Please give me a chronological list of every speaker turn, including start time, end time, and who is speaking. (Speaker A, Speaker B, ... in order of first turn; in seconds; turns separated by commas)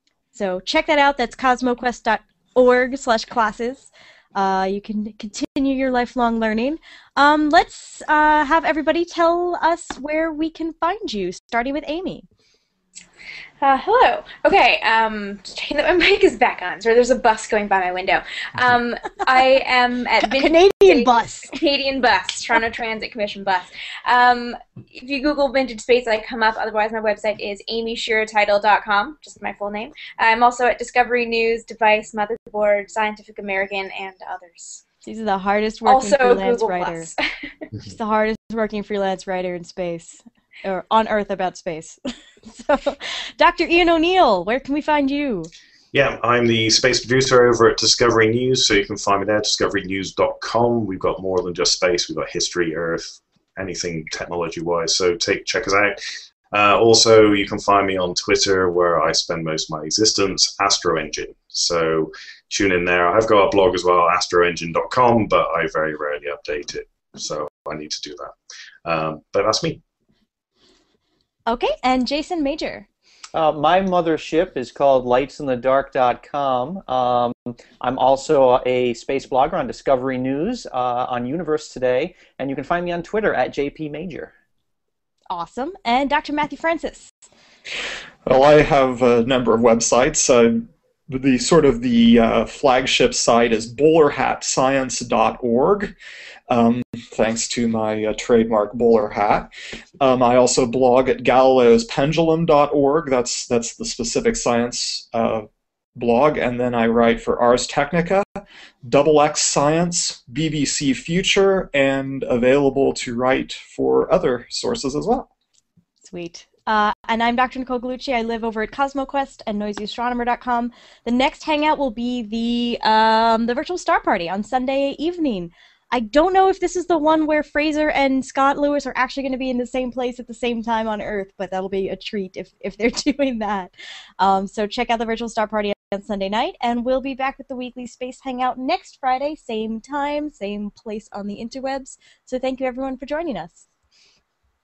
Speaker A: 0.3-12.2, Speaker B: 13.6-34.8, Speaker A: 20.2-21.5, Speaker A: 35.0-37.1, Speaker B: 35.9-37.1, Speaker A: 37.8-45.5, Speaker C: 45.9-56.0, Speaker C: 56.5-68.3, Speaker C: 68.8-69.8, Speaker A: 71.5-72.9, Speaker D: 73.3-84.3, Speaker A: 85.3-87.2, Speaker E: 88.2-96.0, Speaker E: 96.5-115.3, Speaker A: 116.0-143.7